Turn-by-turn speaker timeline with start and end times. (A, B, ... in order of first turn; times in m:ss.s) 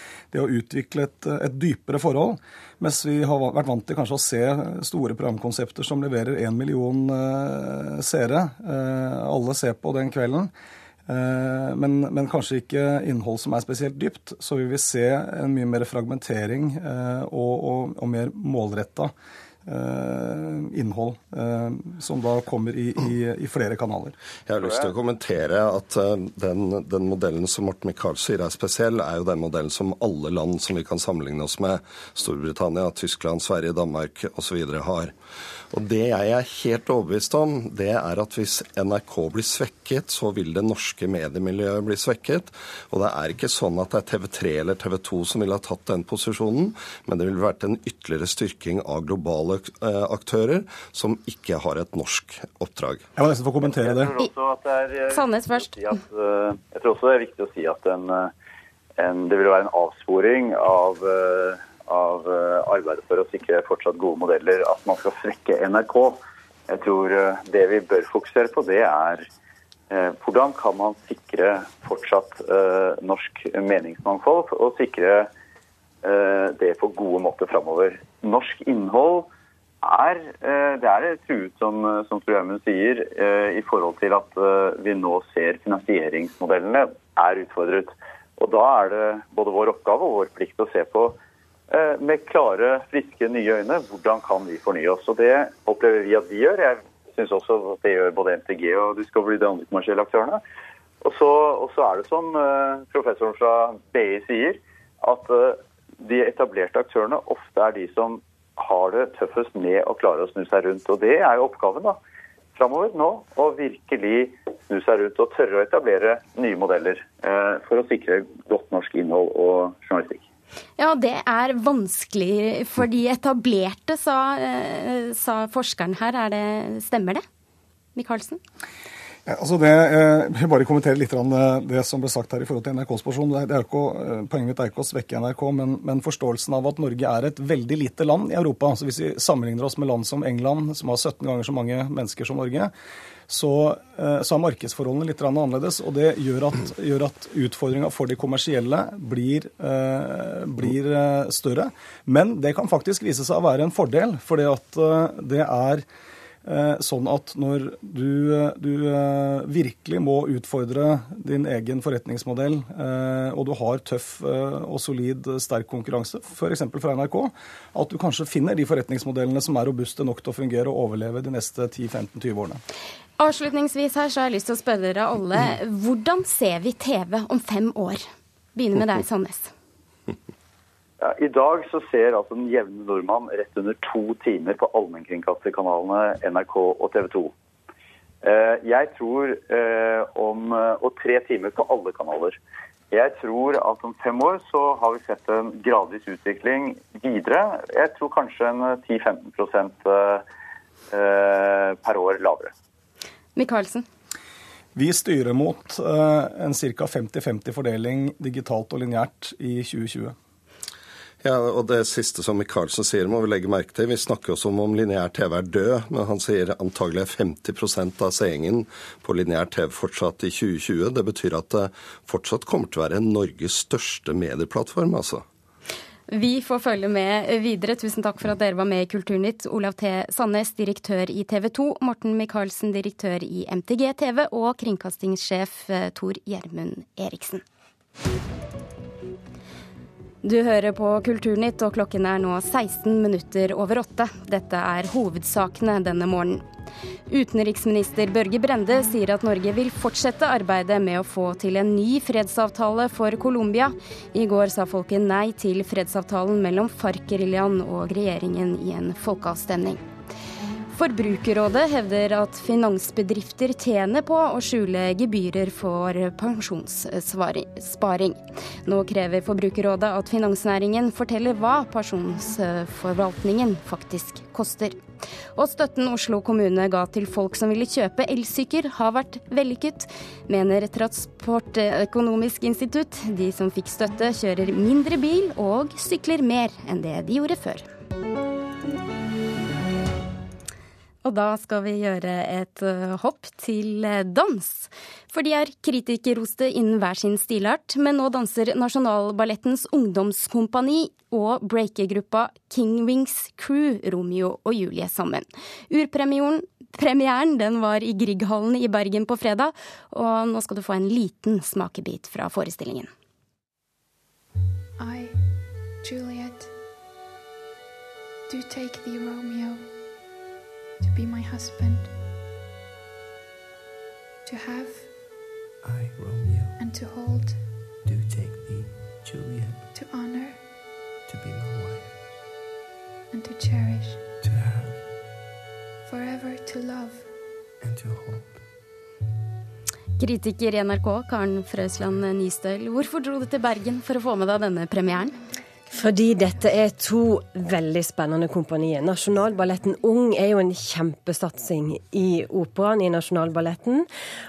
0:00.3-0:10.5 A
0:11.1-0:19.1 A
0:19.7-0:24.2 A
0:24.5-0:35.1 B
0:24.6-0:24.9 C
0:35.7-0:53.1 B
0:53.2-0:54.1 A
0:53.6-0:58.3 C
0:55.1-0:55.9 D
0:59.0-1:09.2 C
1:09.9-1:15.3 C
1:16.0-1:19.3 C
1:19.8-1:31.2 C
1:31.7-1:40.4 C
1:41.0-1:52.0 C
1:52.6-2:00.2 C
2:00.8-2:07.2 D
2:08.0-2:08.4 D
2:09.3-2:22.7 A
2:23.3-2:35.8 A
2:36.4-2:52.6 A
2:53.2-2:58.0 D
2:58.6-2:59.5 D
3:01.0-3:07.3 C
3:08.2-3:12.4 C
3:12.9-3:20.2 C
3:20.9-3:22.5 C
3:23.4-3:23.9 D
3:24.8-3:30.2 A
3:31.2-3:45.2 B
3:46.1-3:57.4 D
4:00.2-4:06.4 D
4:07.1-4:19.8 D
4:20.7-4:34.8 D
4:35.4-4:47.7 D
4:51.0-5:12.9 D
5:14.8-5:16.5 E
5:18.3-5:19.8 E
5:20.8-5:22.0 E
5:24.2-5:25.0 E
5:25.6-5:26.6 F
5:26.6-5:27.5 E
5:27.8-5:29.7 F
5:29.7-5:30.5 E
5:31.1-5:32.0 F
5:33.1-5:34.0 E
5:34.2-5:34.8 F
5:35.8-5:37.1 E
5:37.6-5:38.4 F
5:40.0-5:45.2 D
5:45.7-5:53.9 G